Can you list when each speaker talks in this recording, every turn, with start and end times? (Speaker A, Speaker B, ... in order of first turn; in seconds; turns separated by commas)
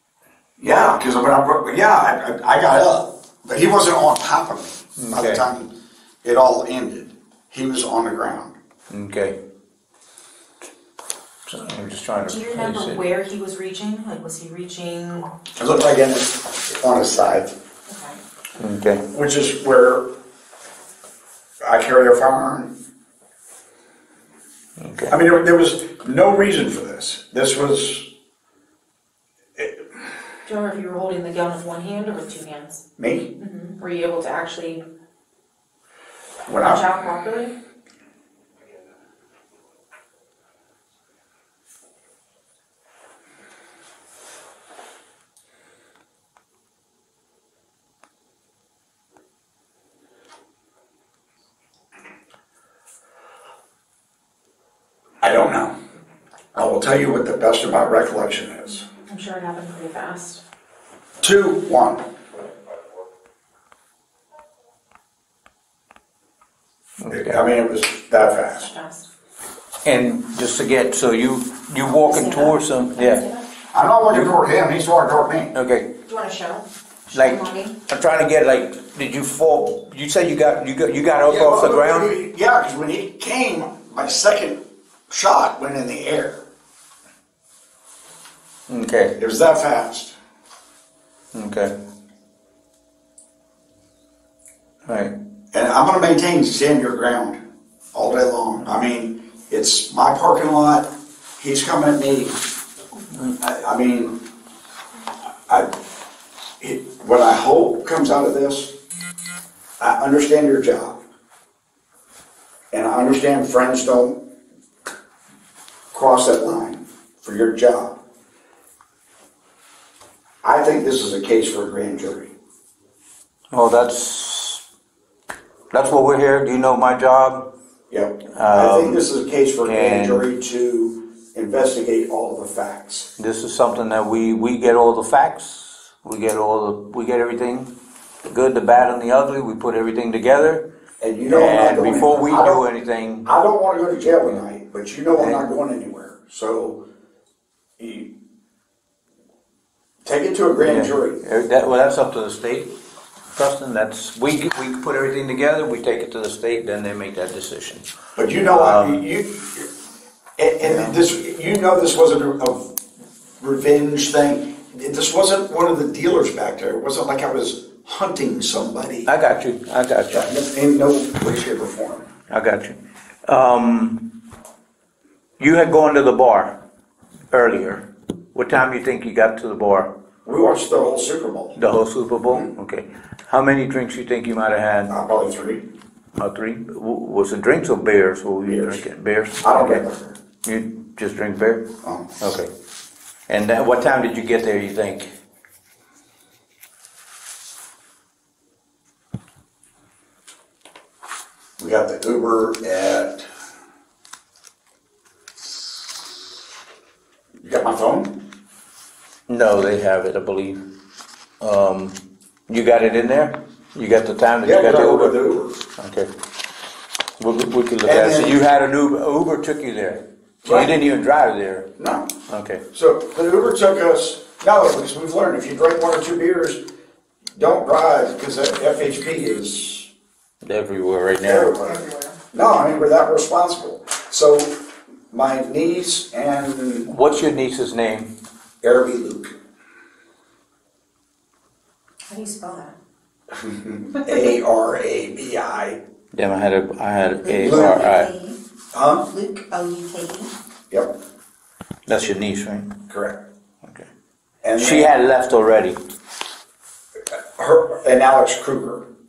Speaker A: 0.6-5.7, Speaker B: 5.0-5.4, Speaker A: 6.2-8.5, Speaker B: 8.9-9.4, Speaker B: 11.5-13.0, Speaker C: 12.2-15.3, Speaker A: 15.6-17.5, Speaker C: 17.9-18.2, Speaker B: 18.6-19.0, Speaker A: 19.1-20.1, Speaker A: 21.6-22.7, Speaker B: 24.8-25.2, Speaker A: 25.1-28.1, Speaker A: 29.6-30.0, Speaker C: 30.4-32.8, Speaker A: 33.0-33.3, Speaker C: 33.4-34.8, Speaker A: 36.5-36.8, Speaker C: 36.6-37.5, Speaker A: 55.2-55.8, Speaker A: 56.5-58.8, Speaker C: 59.0-60.4, Speaker A: 61.2-62.1, Speaker B: 67.0-67.4, Speaker A: 67.1-68.7, Speaker C: 68.6-69.1, Speaker B: 69.8-73.2, Speaker C: 72.0-73.4, Speaker A: 73.7-75.5, Speaker B: 75.5-75.9, Speaker C: 76.0-77.8, Speaker B: 77.1-82.1, Speaker A: 81.2-86.4, Speaker B: 88.7-89.2, Speaker A: 89.2-90.1, Speaker B: 91.3-91.7, Speaker B: 94.8-95.1, Speaker A: 95.5-97.4, Speaker A: 97.9-102.4, Speaker A: 103.4-104.2, Speaker A: 105.5-105.7, Speaker A: 106.6-108.8, Speaker A: 109.8-111.0, Speaker A: 112.7-114.3, Speaker A: 115.9-118.0, Speaker A: 120.4-122.3, Speaker B: 123.5-124.6, Speaker B: 125.7-127.5, Speaker A: 127.9-133.1, Speaker B: 128.3-129.0, Speaker B: 129.6-130.2, Speaker B: 133.2-140.7, Speaker A: 141.0-142.6, Speaker B: 141.3-143.3, Speaker A: 143.2-146.8, Speaker B: 145.2-145.4, Speaker A: 147.8-148.1, Speaker A: 150.0-151.2, Speaker B: 150.6-152.7, Speaker B: 153.3-157.9, Speaker A: 158.2-159.7, Speaker B: 158.4-159.0, Speaker A: 160.4-162.8, Speaker B: 160.6-161.0, Speaker A: 163.4-169.1, Speaker B: 169.1-170.3, Speaker A: 170.1-172.1, Speaker B: 172.3-174.1, Speaker B: 175.4-176.6, Speaker B: 177.3-179.9, Speaker A: 180.2-181.6, Speaker B: 181.6-184.9, Speaker A: 184.9-185.7, Speaker B: 186.2-189.8, Speaker A: 188.4-188.8, Speaker A: 189.4-190.2, Speaker B: 190.4-192.5, Speaker A: 191.8-192.2, Speaker B: 193.3-195.1, Speaker A: 201.6-203.3, Speaker A: 207.4-208.2, Speaker B: 209.3-210.7, Speaker B: 211.4-215.2, Speaker A: 214.4-215.6, Speaker B: 215.8-216.1, Speaker B: 217.2-221.7, Speaker A: 217.8-218.4, Speaker A: 220.4-220.7, Speaker A: 221.8-222.1, Speaker B: 222.3-222.6, Speaker A: 222.7-226.6, Speaker A: 227.3-229.9, Speaker B: 230.4-231.5, Speaker A: 231.2-234.6, Speaker C: 231.5-232.2, Speaker A: 235.1-236.9, Speaker B: 236.9-238.1, Speaker A: 238.6-239.3, Speaker C: 242.1-242.8, Speaker A: 243.3-245.8, Speaker B: 246.1-248.1, Speaker C: 247.2-248.4, Speaker A: 247.4-247.8, Speaker A: 248.7-249.1, Speaker C: 249.1-250.3, Speaker A: 250.7-251.0, Speaker B: 251.8-252.8, Speaker A: 252.9-253.2, Speaker B: 253.6-253.9, Speaker A: 254.4-254.9, Speaker B: 254.6-255.8, Speaker A: 257.1-258.9